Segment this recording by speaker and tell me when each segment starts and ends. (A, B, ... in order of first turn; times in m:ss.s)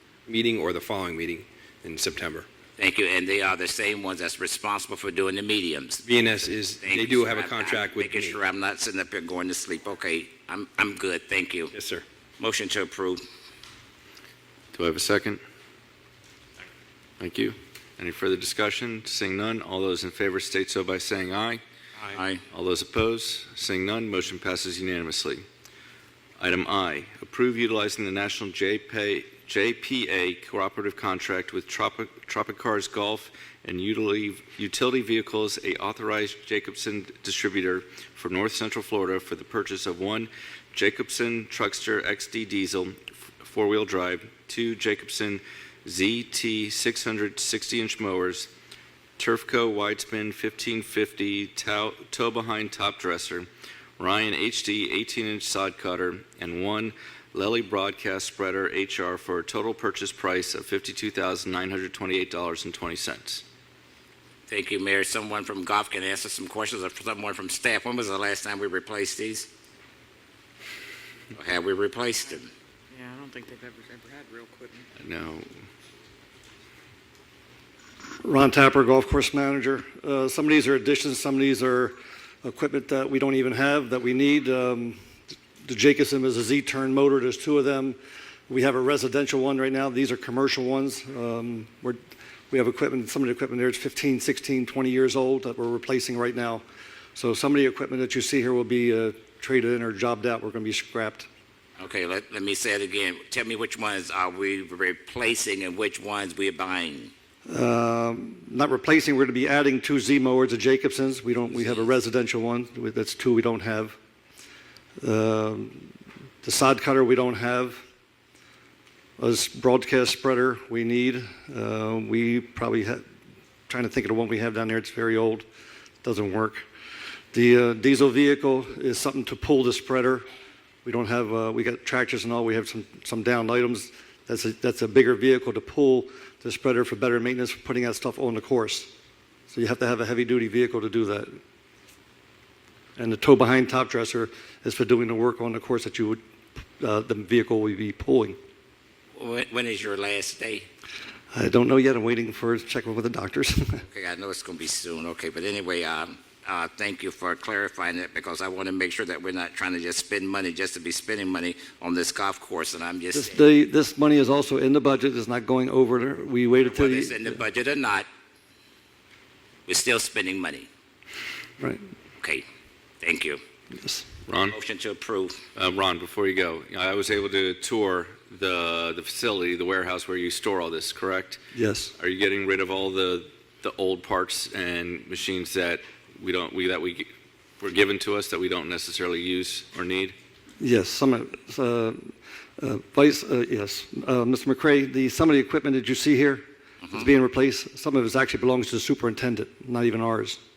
0:00.3-0:02.5 A
0:02.8-0:06.0 B
0:06.0-0:08.4 A
0:06.8-0:11.7 B
0:11.7-0:12.0 A
0:12.4-0:13.2 B
0:14.7-0:15.4 C
0:17.2-0:21.6 C
0:22.1-0:22.4 B
0:22.5-0:25.4 C
0:26.4-0:48.5 C
0:49.2-0:53.5 C
0:54.0-1:03.4 C
1:04.5-1:09.5 B
1:11.3-1:12.5 B
1:12.9-1:14.9 D
1:15.0-1:15.5 C
1:18.2-1:25.0 E
1:25.6-1:28.0 E
1:28.5-1:36.6 E
1:37.2-1:41.3 E
1:41.8-1:47.1 B
1:47.5-1:54.0 E
1:51.5-1:51.9 B
1:55.0-1:55.9 E
1:56.4-1:57.8 E
1:59.2-2:03.0 E
2:03.7-2:05.5 E
2:06.0-2:06.6 E
2:07.3-2:10.3 E
2:10.8-2:18.9 E
2:19.5-2:21.4 E
2:23.0-2:26.2 E
2:26.8-2:28.4 E
2:29.2-2:30.7 B
2:31.3-2:33.8 E
2:33.9-2:43.4 B
2:43.1-2:47.4 E
2:46.6-2:48.1 B
2:49.7-2:50.7 B
2:53.0-2:53.4 B
2:53.8-2:54.1 E
2:54.3-2:54.6 C
2:54.5-2:55.4 B
2:55.6-3:01.4 C
3:01.5-3:01.9 E
3:02.0-3:07.1 C
3:07.6-3:10.2 C
3:10.6-3:20.4 E